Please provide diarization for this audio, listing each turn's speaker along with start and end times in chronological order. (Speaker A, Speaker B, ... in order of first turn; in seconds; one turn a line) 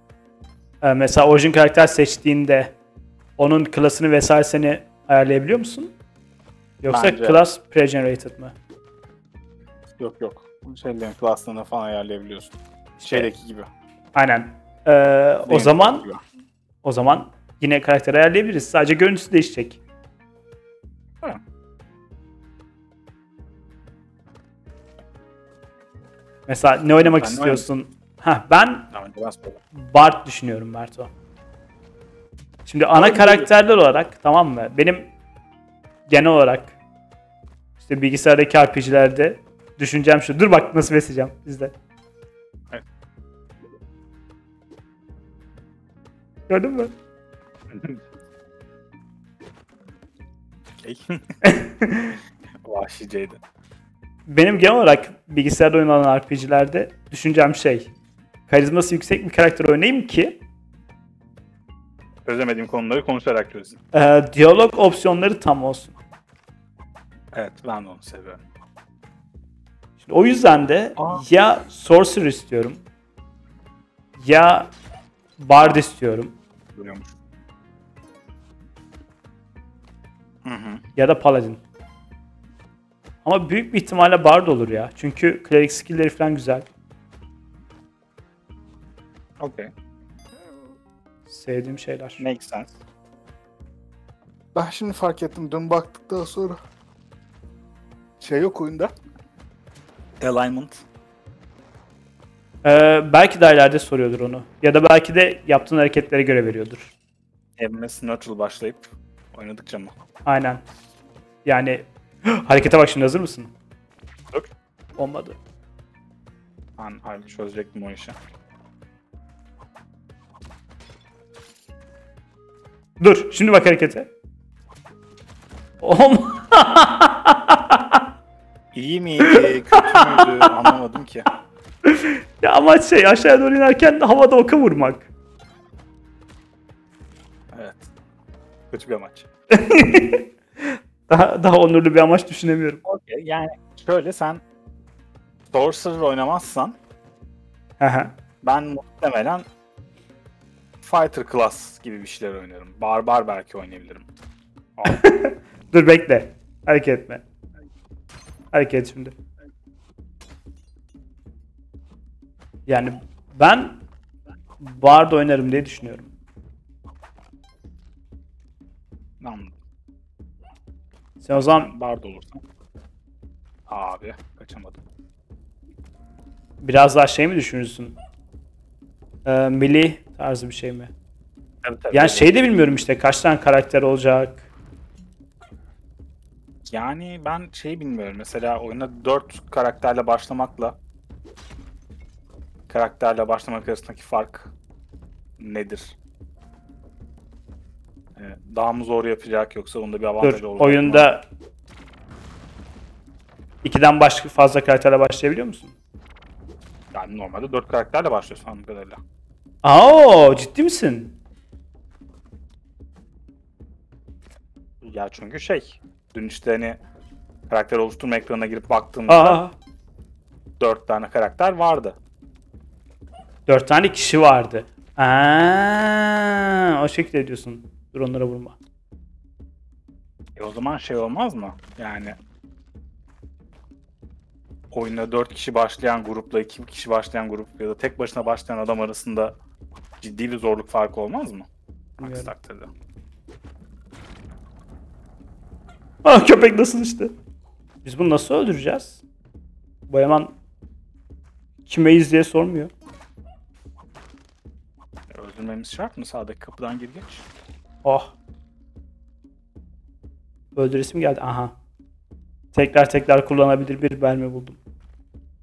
Speaker A: 0.8-2.7
Speaker A: 3.4-5.9
Speaker A: 6.8-8.5
Speaker B: 6.9-7.4
Speaker B: 10.0-13.7
Speaker A: 13.0-13.3
Speaker A: 14.1-16.1
Speaker B: 15.4-16.2
Speaker A: 16.8-19.8
Speaker A: 26.5-28.9
Speaker B: 27.0-27.6
Speaker B: 28.9-29.6
Speaker A: 29.7-31.1
Speaker A: 32.6-35.1
Speaker B: 32.9-33.5
Speaker A: 36.1-36.7
Speaker A: 37.8-41.7
Speaker A: 46.5-46.9
Speaker B: 47.7-48.0
Speaker B: 50.8-51.4
Speaker A: 51.4-52.2
Speaker B: 52.6-53.4
Speaker A: 54.3-57.9
Speaker A: 58.5-60.4
Speaker B: 62.2-63.8
Speaker A: 63.9-65.9
Speaker B: 67.3-68.4
Speaker A: 70.0-72.8
Speaker B: 71.0-71.2
Speaker A: 74.2-74.7
Speaker A: 75.4-76.3
Speaker B: 76.8-77.1
Speaker B: 80.4-80.8
Speaker A: 81.0-81.6
Speaker A: 83.2-86.7
Speaker B: 89.4-89.7
Speaker A: 91.3-92.2
Speaker B: 92.2-92.7
Speaker B: 94.5-96.6
Speaker B: 98.2-98.9
Speaker B: 100.2-100.8
Speaker A: 102.6-106.9
Speaker B: 107.6-109.9
Speaker A: 110.2-110.6
Speaker A: 111.4-113.5
Speaker A: 115.0-115.4
Speaker B: 116.8-118.2
Speaker A: 123.0-124.1
Speaker A: 125.8-128.0
Speaker B: 128.7-131.3
Speaker A: 129.2-130.5
Speaker A: 131.8-135.1
Speaker B: 137.5-137.9
Speaker B: 138.7-139.3
Speaker A: 139.5-142.8
Speaker B: 142.8-144.4
Speaker B: 145.5-146.8
Speaker A: 147.8-148.1
Speaker B: 148.4-149.4
Speaker B: 150.8-154.1
Speaker A: 154.8-157.2
Speaker A: 158.5-159.1
Speaker A: 162.7-163.8
Speaker A: 164.6-166.1
Speaker B: 169.2-169.5
Speaker A: 171.2-171.7
Speaker B: 171.3-172.4
Speaker B: 173.7-174.8
Speaker A: 176.6-178.0
Speaker A: 179.2-180.9
Speaker B: 181.6-182.3
Speaker A: 181.9-184.4
Speaker B: 186.6-190.8
Speaker B: 192.7-194.5
Speaker B: 195.4-195.9
Speaker B: 198.2-201.1
Speaker A: 200.2-201.2
Speaker A: 203.6-205.7
Speaker B: 206.9-209.0
Speaker A: 209.6-211.2
Speaker B: 214.8-216.8
Speaker B: 217.5-219.4
Speaker A: 219.1-219.5
Speaker B: 220.6-222.0
Speaker A: 223.5-228.6
Speaker B: 230.3-232.2
Speaker B: 234.7-239.4
Speaker B: 240.0-241.5
Speaker A: 242.0-242.3
Speaker B: 242.0-242.7
Speaker A: 246.0-247.1
Speaker A: 247.8-249.0
Speaker A: 249.9-250.3
Speaker A: 251.6-252.7
Speaker B: 255.1-257.2
Speaker A: 257.8-258.1
Speaker A: 260.6-261.5
Speaker A: 262.5-264.6